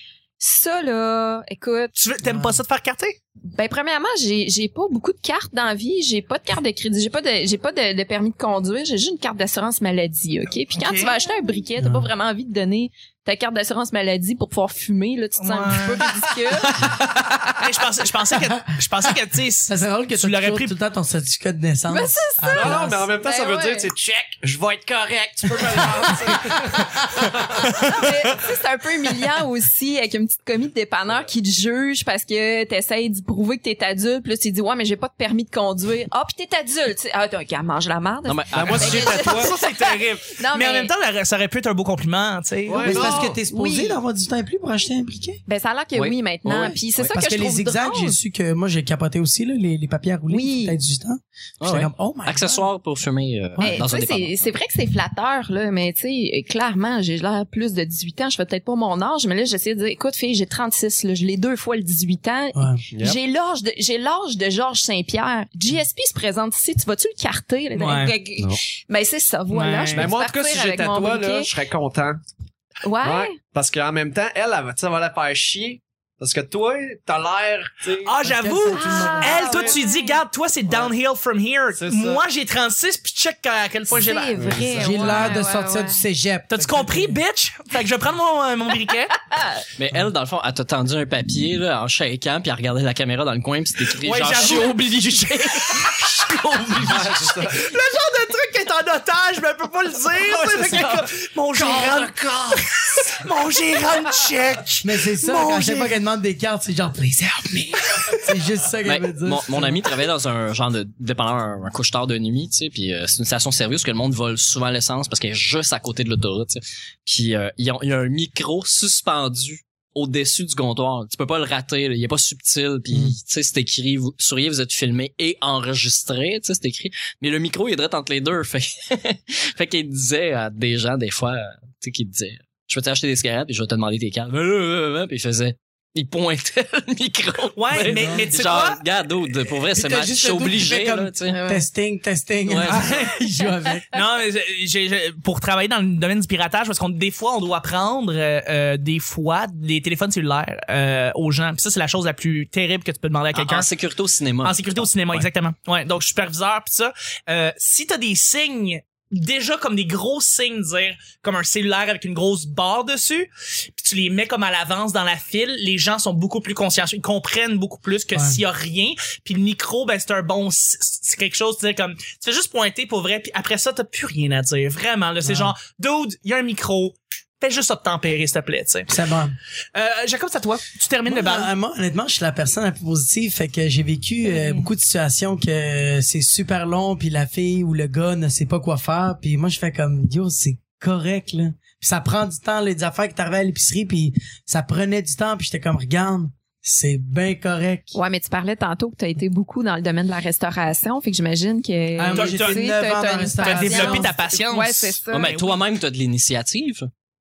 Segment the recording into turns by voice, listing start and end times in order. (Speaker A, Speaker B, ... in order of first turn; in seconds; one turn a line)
Speaker A: 0.4-1.9
Speaker B: 2.0-3.2
Speaker C: 2.2-2.6
Speaker A: 3.5-16.8
Speaker B: 10.8-11.1
Speaker C: 11.8-12.1
Speaker B: 15.4-16.1
Speaker C: 16.8-17.4
Speaker B: 17.6-20.7
Speaker C: 19.7-23.1
Speaker A: 21.9-23.9
Speaker D: 22.5-28.3
Speaker A: 28.0-40.9
Speaker E: 38.3-39.2
Speaker D: 38.5-39.5
Speaker B: 38.6-43.2
Speaker D: 42.7-43.4
Speaker A: 42.8-44.0
Speaker C: 42.8-45.4
Speaker A: 45.5-48.2
Speaker E: 46.0-47.2
Speaker C: 47.1-52.7
Speaker A: 50.3-50.8
Speaker E: 51.6-54.5
Speaker C: 53.6-53.8
Speaker A: 53.6-71.5
Speaker C: 62.5-62.8
Speaker D: 62.9-63.2
Speaker B: 67.7-68.1
Speaker B: 69.5-70.1
Speaker D: 69.9-72.2
Speaker A: 72.8-73.4
Speaker D: 73.0-78.2
Speaker B: 78.0-85.3
Speaker C: 78.2-79.5
Speaker A: 78.7-80.2
Speaker D: 79.2-79.8
Speaker D: 80.7-80.9
Speaker D: 81.7-82.2
Speaker A: 83.9-86.0
Speaker D: 84.3-85.2
Speaker C: 84.8-87.2
Speaker B: 86.5-89.1
Speaker A: 89.3-89.6
Speaker E: 89.8-97.5
Speaker B: 94.0-94.8
Speaker B: 95.7-106.0
Speaker D: 96.8-97.7
Speaker D: 100.2-102.8
Speaker C: 104.8-109.8
Speaker E: 108.8-141.4
Speaker B: 137.6-138.8
Speaker C: 137.8-138.4
Speaker C: 139.7-143.9
Speaker A: 141.3-141.7
Speaker E: 142.5-142.9
Speaker B: 142.6-143.1
Speaker B: 143.9-153.7
Speaker E: 153.3-155.3
Speaker B: 154.4-178.9
Speaker C: 168.1-168.4
Speaker C: 175.2-175.5
Speaker C: 178.9-179.3
Speaker B: 179.7-181.5
Speaker C: 181.1-198.0
Speaker B: 184.4-184.6
Speaker A: 197.9-205.4
Speaker C: 202.0-204.1
Speaker B: 202.1-202.6
Speaker B: 203.4-205.5
Speaker E: 205.1-206.9